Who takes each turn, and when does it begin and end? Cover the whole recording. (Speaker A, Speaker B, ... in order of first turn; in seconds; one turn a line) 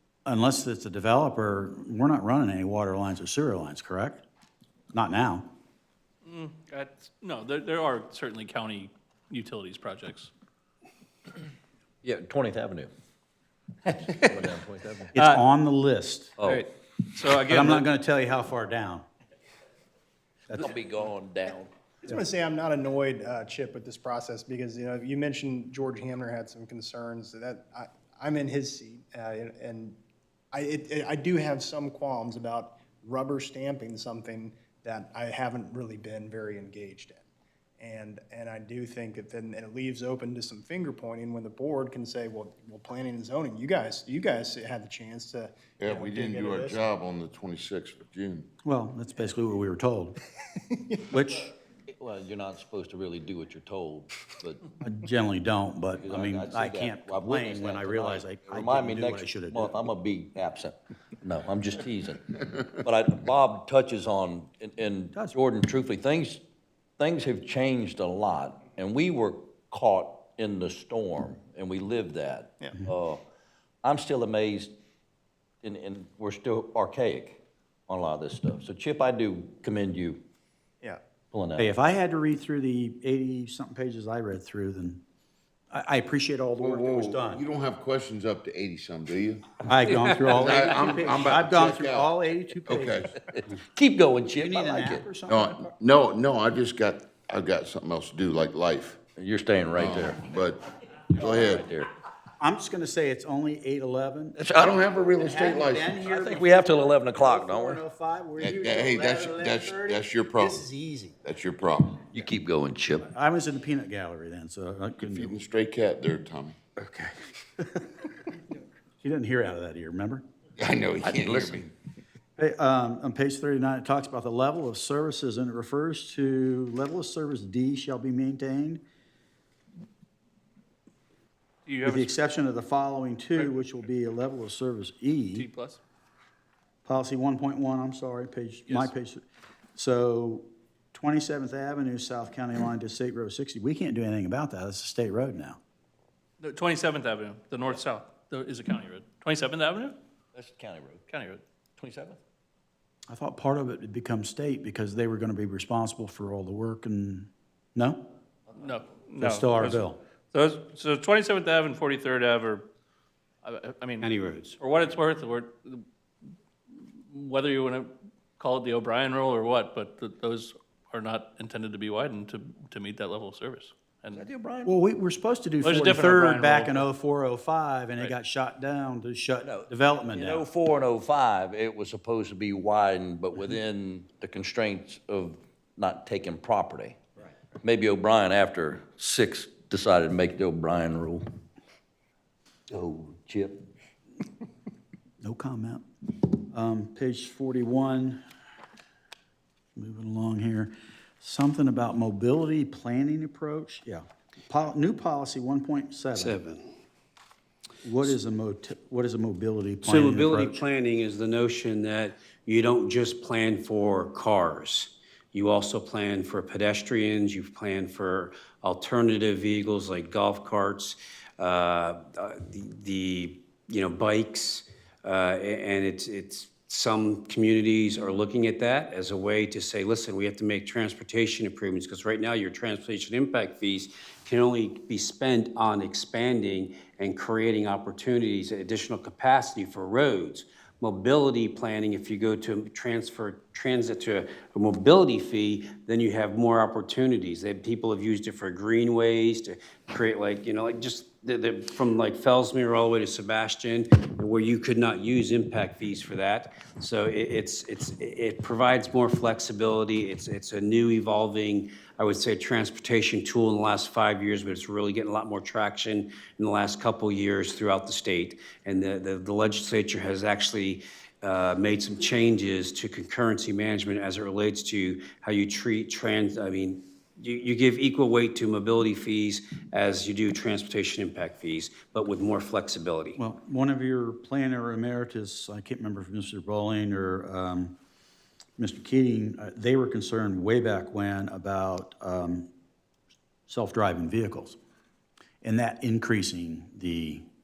Speaker A: 0.3-4.2
Speaker A: 4.9-5.5
Speaker B: 6.3-10.3
Speaker C: 12.0-12.9
Speaker C: 13.9-15.1
Speaker A: 15.1-16.4
Speaker B: 15.2-15.4
Speaker C: 16.4-16.6
Speaker B: 16.4-17.9
Speaker A: 17.5-19.1
Speaker C: 20.5-21.7
Speaker D: 22.0-30.0
Speaker D: 30.5-37.3
Speaker D: 37.8-46.8
Speaker E: 45.8-48.5
Speaker A: 48.6-50.2
Speaker A: 51.1-51.5
Speaker C: 51.9-54.6
Speaker A: 54.8-59.8
Speaker C: 56.0-66.4
Speaker C: 67.0-73.2
Speaker C: 73.8-74.7
Speaker C: 75.6-80.2
Speaker C: 81.3-81.7
Speaker A: 81.6-85.0
Speaker A: 85.7-87.4
Speaker E: 86.6-89.6
Speaker A: 89.7-93.1
Speaker F: 89.9-90.5
Speaker E: 90.2-92.1
Speaker E: 92.7-93.2
Speaker C: 93.2-95.0
Speaker A: 94.4-95.7
Speaker E: 95.3-99.0
Speaker C: 99.2-100.3
Speaker E: 99.8-101.7
Speaker C: 101.2-101.9
Speaker A: 102.4-104.4
Speaker C: 104.4-104.9
Speaker E: 104.5-106.0
Speaker A: 105.2-111.2
Speaker C: 106.0-107.8
Speaker E: 108.4-110.7
Speaker E: 111.2-112.1
Speaker C: 112.1-113.0
Speaker A: 113.1-115.3
Speaker E: 115.0-116.6
Speaker A: 116.8-117.9
Speaker A: 119.0-120.2
Speaker E: 120.6-121.7
Speaker C: 121.0-121.6
Speaker A: 122.4-128.8
Speaker B: 131.7-132.1
Speaker A: 131.8-135.5
Speaker B: 135.3-135.8
Speaker A: 136.8-139.2
Speaker B: 138.7-138.9
Speaker A: 139.8-145.6
Speaker B: 146.4-150.0
Speaker C: 150.3-151.1
Speaker B: 151.1-151.4
Speaker C: 151.8-152.2
Speaker A: 153.1-158.1
Speaker C: 158.5-158.9
Speaker B: 158.6-162.7
Speaker A: 159.2-160.0
Speaker B: 163.4-165.8
Speaker F: 164.0-164.6
Speaker B: 166.7-174.3
Speaker C: 174.1-174.8
Speaker A: 174.7-180.5
Speaker B: 175.6-176.9
Speaker C: 179.4-187.1
Speaker C: 187.6-191.2
Speaker C: 192.7-193.7
Speaker A: 195.2-198.2
Speaker A: 199.8-206.4
Speaker F: 206.2-206.6
Speaker A: 207.8-210.6
Speaker F: 209.8-283.2
Speaker A: 283.2-287.8
Speaker A: 288.6-292.5
Speaker A: 293.5-294.6
Speaker A: 295.4-297.2